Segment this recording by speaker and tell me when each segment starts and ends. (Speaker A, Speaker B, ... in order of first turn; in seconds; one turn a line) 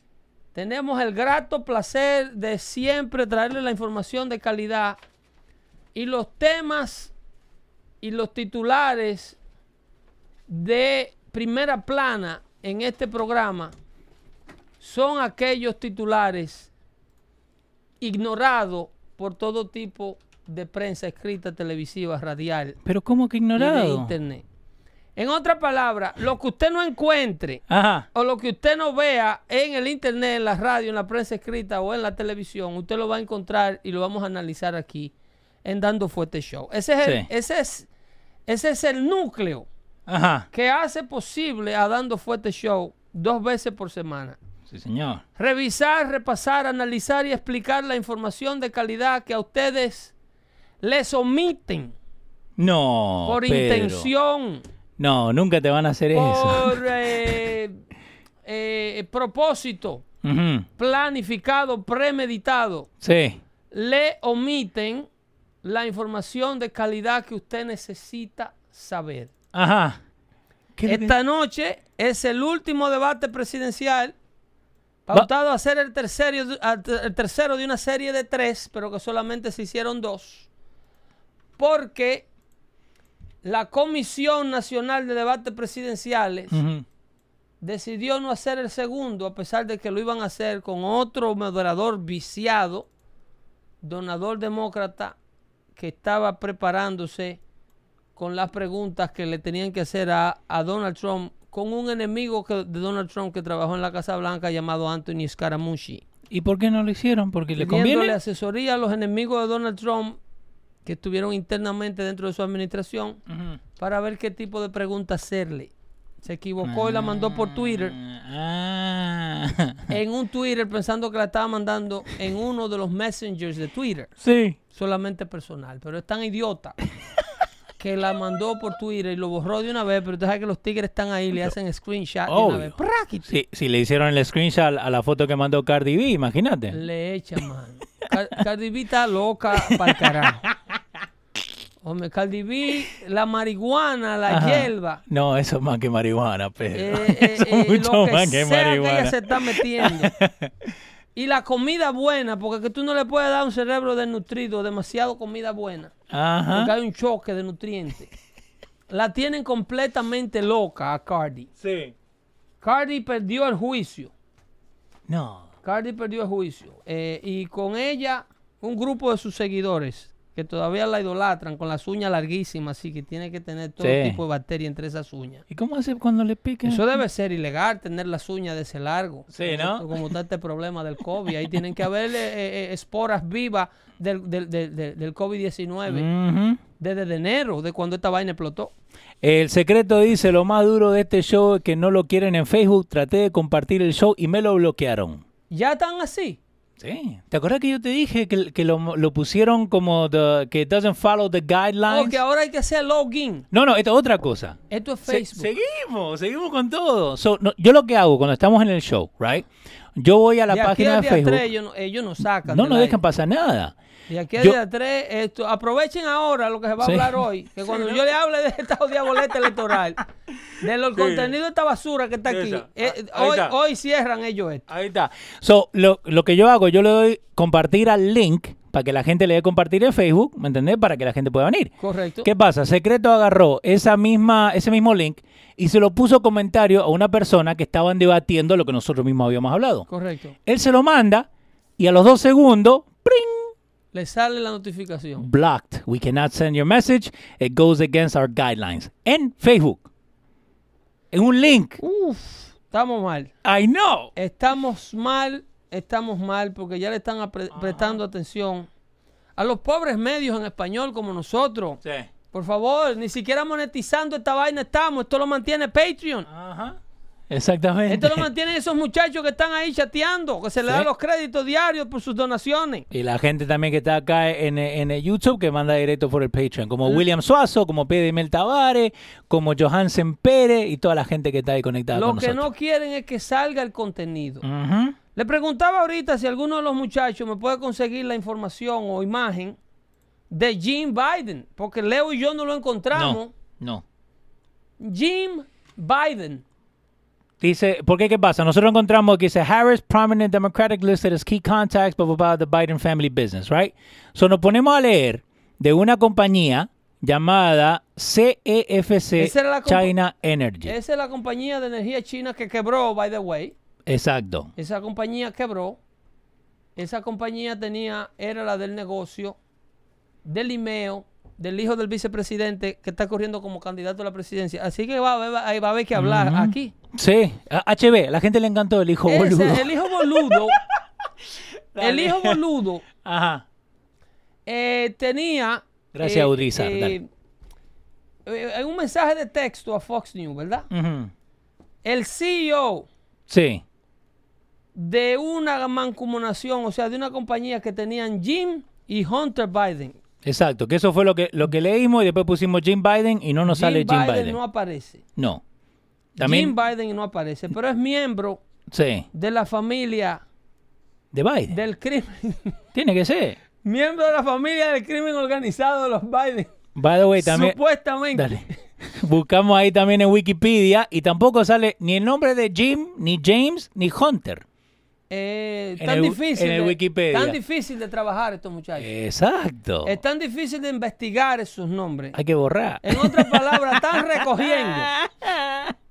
Speaker A: 0.5-5.0
Speaker A: 6.0-7.1
Speaker A: 8.0-9.4
Speaker A: 10.5-13.7
Speaker A: 14.8-16.7
Speaker A: 18.0-22.8
Speaker B: 22.9-24.1
Speaker A: 23.6-24.4
Speaker A: 25.2-35.1
Speaker B: 27.7-28.1
Speaker A: 35.6-37.9
Speaker B: 37.0-37.3
Speaker A: 38.5-39.7
Speaker B: 40.1-40.5
Speaker A: 40.5-44.4
Speaker B: 44.7-45.2
Speaker A: 45.4-50.1
Speaker A: 50.8-51.9
Speaker B: 52.6-54.1
Speaker A: 53.2-54.6
Speaker B: 55.0-57.4
Speaker A: 56.1-57.8
Speaker A: 58.5-60.0
Speaker B: 60.2-60.7
Speaker A: 60.8-62.9
Speaker B: 63.0-63.4
Speaker A: 63.7-65.1
Speaker A: 65.6-69.3
Speaker B: 69.5-70.0
Speaker B: 70.8-71.2
Speaker A: 70.9-74.2
Speaker A: 75.1-80.5
Speaker A: 81.6-82.3
Speaker A: 83.4-86.6
Speaker B: 86.5-86.8
Speaker A: 87.6-92.9
Speaker A: 93.8-95.2
Speaker A: 95.8-97.4
Speaker A: 98.2-106.0
Speaker B: 106.3-108.2
Speaker A: 107.6-110.2
Speaker A: 110.8-113.2
Speaker B: 113.3-113.6
Speaker A: 113.8-115.7
Speaker A: 116.2-118.0
Speaker B: 116.6-119.9
Speaker A: 119.9-124.1
Speaker B: 124.2-124.6
Speaker A: 124.7-126.8
Speaker A: 127.8-133.3
Speaker B: 132.3-136.8
Speaker A: 136.7-140.4
Speaker B: 139.6-140.6
Speaker A: 141.8-145.0
Speaker B: 144.3-150.5
Speaker A: 146.7-150.1
Speaker A: 151.2-155.9
Speaker B: 156.1-156.7
Speaker A: 156.5-158.1
Speaker A: 158.9-161.5
Speaker B: 161.6-161.9
Speaker A: 162.6-164.1
Speaker B: 165.1-165.5
Speaker A: 165.6-175.4
Speaker B: 173.8-174.2
Speaker B: 175.5-176.9
Speaker A: 176.7-186.1
Speaker B: 179.3-180.1
Speaker B: 185.9-186.6
Speaker A: 186.8-188.7
Speaker B: 189.2-195.2
Speaker A: 195.5-196.4
Speaker B: 196.8-202.2
Speaker A: 201.9-203.5
Speaker B: 203.5-211.4
Speaker A: 204.7-205.5
Speaker A: 210.5-213.0
Speaker B: 212.5-213.8
Speaker A: 214.1-220.0
Speaker B: 216.8-218.0
Speaker A: 220.6-224.7
Speaker B: 220.9-221.3
Speaker B: 222.3-223.5
Speaker B: 224.7-239.9
Speaker A: 231.8-232.3
Speaker A: 239.9-240.4
Speaker B: 240.5-241.3
Speaker B: 241.8-243.5
Speaker A: 243.9-245.3
Speaker B: 245.2-249.9
Speaker B: 251.1-251.8
Speaker A: 251.8-253.3
Speaker B: 253.4-254.1
Speaker A: 254.2-258.7
Speaker B: 257.5-258.0
Speaker A: 259.4-261.8
Speaker B: 261.8-262.1
Speaker A: 262.3-266.3
Speaker B: 266.3-266.8
Speaker B: 267.3-268.3
Speaker A: 267.9-272.9
Speaker B: 272.9-282.5
Speaker A: 281.9-284.4
Speaker B: 284.4-285.0
Speaker A: 285.1-289.6
Speaker A: 290.3-293.3
Speaker B: 292.9-293.8
Speaker A: 294.8-296.4
Speaker B: 297.4-310.7
Speaker A: 309.2-309.9
Speaker A: 310.6-313.5
Speaker B: 313.9-314.5
Speaker A: 314.6-315.8
Speaker A: 316.8-319.4
Speaker A: 320.2-326.7
Speaker B: 326.0-332.4
Speaker A: 329.1-330.6
Speaker A: 331.8-332.8
Speaker B: 333.0-333.4
Speaker A: 334.5-337.1
Speaker B: 335.9-337.0
Speaker A: 338.3-340.7
Speaker B: 340.7-341.1
Speaker A: 341.8-342.9
Speaker B: 343.3-343.6
Speaker A: 344.8-350.0
Speaker B: 350.2-354.4
Speaker A: 353.5-355.0
Speaker B: 355.2-355.4
Speaker B: 356.2-356.6
Speaker A: 356.2-358.4
Speaker B: 358.7-359.1
Speaker A: 359.1-360.2
Speaker B: 361.1-361.6
Speaker A: 361.5-362.6
Speaker B: 362.7-363.4
Speaker A: 363.6-366.5
Speaker B: 366.8-367.6
Speaker A: 367.2-368.4
Speaker B: 368.1-374.4
Speaker A: 375.1-378.9
Speaker B: 375.8-377.4
Speaker B: 378.8-380.0
Speaker A: 379.9-382.2
Speaker B: 382.1-385.7
Speaker A: 382.8-384.9